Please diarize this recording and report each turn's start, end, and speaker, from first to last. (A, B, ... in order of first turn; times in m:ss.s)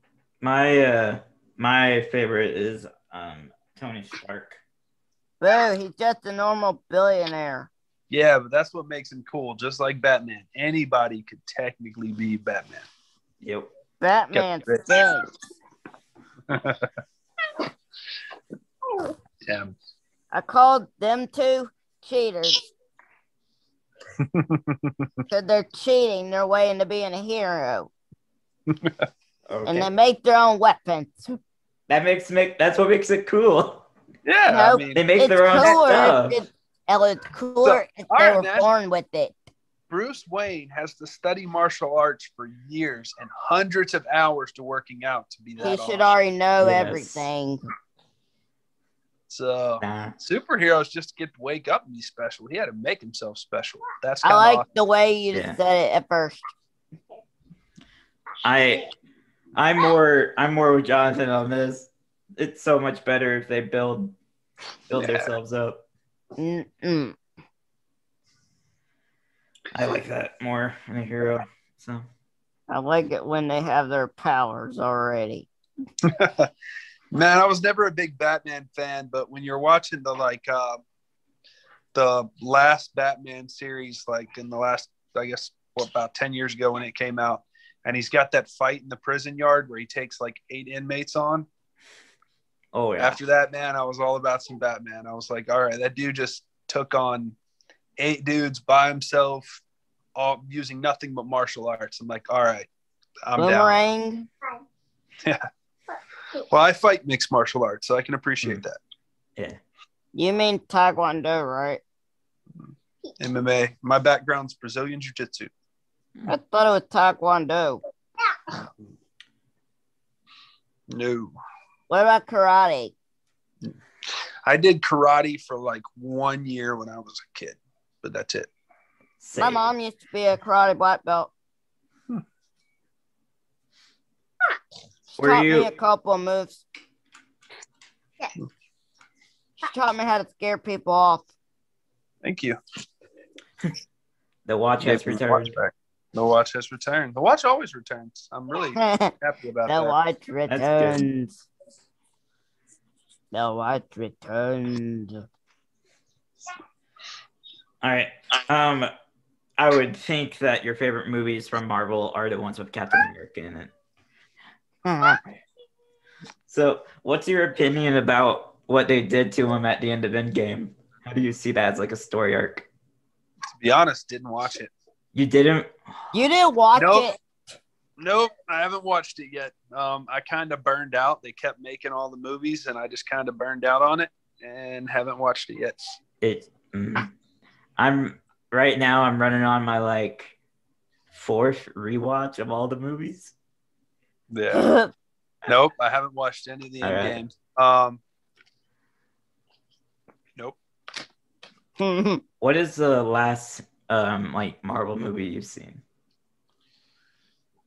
0:00.4-0:04.6 A
0:05.4-0:07.7 B
0:08.1-0:12.9 C
0:13.4-0:13.7 A
0:14.0-0:15.3 B
0:14.3-0:15.1 C
0:16.5-0:16.9 C
0:19.4-0:19.7 C
0:20.3-0:22.7 B
0:24.2-0:25.2 C
0:25.3-0:27.9 B
0:28.7-0:29.1 C
0:29.5-0:29.9 A
0:29.7-0:31.4 B
0:31.9-0:33.8 A
0:34.3-0:35.9 C
0:34.5-0:39.4 B
0:34.9-0:36.4 A
0:37.6-0:38.7 C
0:39.9-0:46.2 C
0:45.6-0:47.6 B
0:46.6-0:47.3 A
0:49.3-0:54.7 C
0:49.8-0:50.2 A
0:54.2-0:56.4 B
0:58.4-0:58.9 A
0:59.6-1:04.2 A
1:04.9-1:05.8 A
1:04.9-1:05.3 C
1:06.4-1:07.2 B
1:09.7-1:12.1 A
1:12.7-1:15.5 B
1:16.0-1:16.5 C
1:17.1-1:20.8 C
1:21.9-1:31.5 C
1:32.7-1:33.2 A
1:33.0-1:37.4 C
1:38.0-1:39.6 C
1:40.2-1:42.7 C
1:43.3-1:43.8 C
1:43.4-1:44.3 B
1:45.2-1:45.5 C
1:46.4-1:48.8 C
1:50.1-1:51.8 B
1:52.6-1:55.5 C
1:56.3-1:57.8 B
2:00.9-2:01.4 C
2:01.9-2:02.9 B
2:04.4-2:08.5 C
2:09.2-2:09.7 A
2:09.4-2:11.3 B
2:15.2-2:15.7 A
2:15.2-2:16.6 B
2:19.6-2:21.3 B
2:22.2-2:22.6 C
2:24.5-2:25.6 A
2:24.8-2:30.0 C
2:28.8-2:29.1 B
2:29.7-2:31.3 B
2:30.5-2:31.0 A
2:33.3-2:35.2 B
2:37.8-2:38.9 A
2:39.6-2:43.7 A
2:44.8-2:45.2 B
2:46.5-2:52.7 A
2:53.5-2:54.7 C
2:55.1-2:55.7 A
2:56.1-2:57.2 B
2:56.7-2:57.1 C
2:58.0-3:06.0 C
3:06.2-3:07.1 A
3:07.8-3:10.4 A
3:11.1-3:13.3 A
3:14.3-3:14.7 C
3:14.5-3:14.9 B
3:15.5-3:18.0 C
3:16.8-3:17.2 A
3:21.8-3:22.2 B
3:22.4-3:25.8 A